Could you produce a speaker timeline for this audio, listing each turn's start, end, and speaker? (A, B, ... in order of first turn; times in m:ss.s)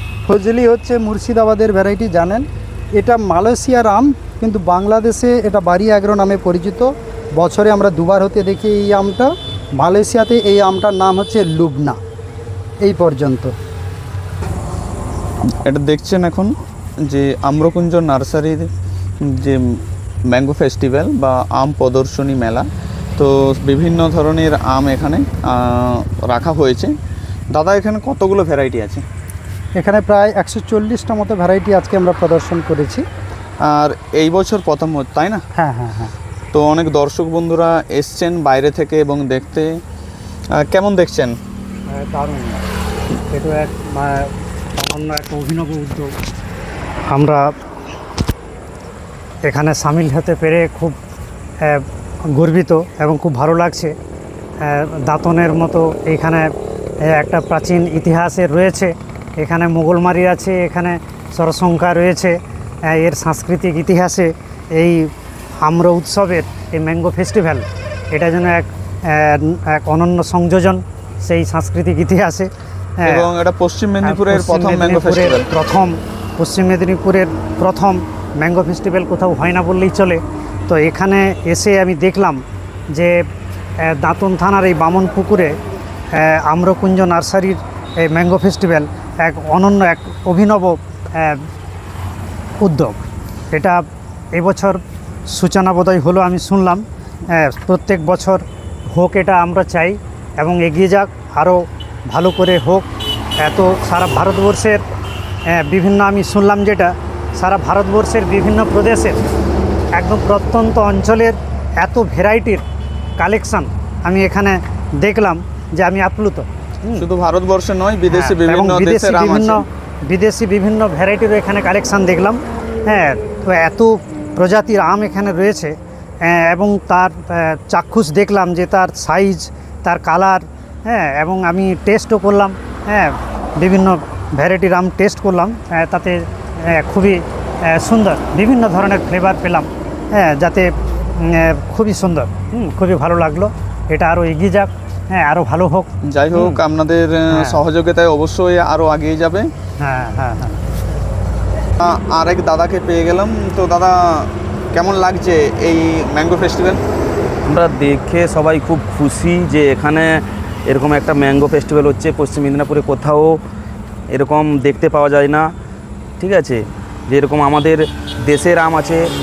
0:00.2-0:12.0 A
0:12.8-0:13.6 A
0:15.6-0:16.5 B
0:17.1-0:18.7 B
0:19.3-0:19.6 B
0:20.3-0:22.6 B
0:23.2-0:26.9 B
0:27.5-0:29.0 B
0:29.8-0:33.0 A
0:33.7-0:35.4 B
0:35.6-0:36.1 A
0:36.5-0:39.7 B
0:40.6-0:41.4 B
0:41.9-0:42.6 C
0:43.3-0:46.2 C
0:47.1-0:47.6 C
0:49.4-0:51.0 C
0:51.6-0:53.9 C
0:54.6-0:56.5 C
0:57.1-1:13.3 C
1:13.1-1:15.5 B
1:14.0-1:22.4 C
1:22.9-1:23.2 C
1:23.8-1:25.6 C
1:26.1-1:31.5 C
1:32.6-1:33.0 C
1:33.5-1:42.9 C
1:43.4-1:44.8 C
1:45.5-1:49.2 C
1:50.0-1:52.6 C
1:53.2-1:57.1 C
1:57.0-1:59.6 B
1:58.1-2:26.6 C
2:26.0-2:29.5 B
2:27.3-2:27.6 C
2:29.8-2:30.6 C
2:31.8-2:34.0 B
2:34.7-2:36.8 B
2:37.5-2:43.4 D
2:44.1-2:45.5 D
2:46.2-2:49.1 D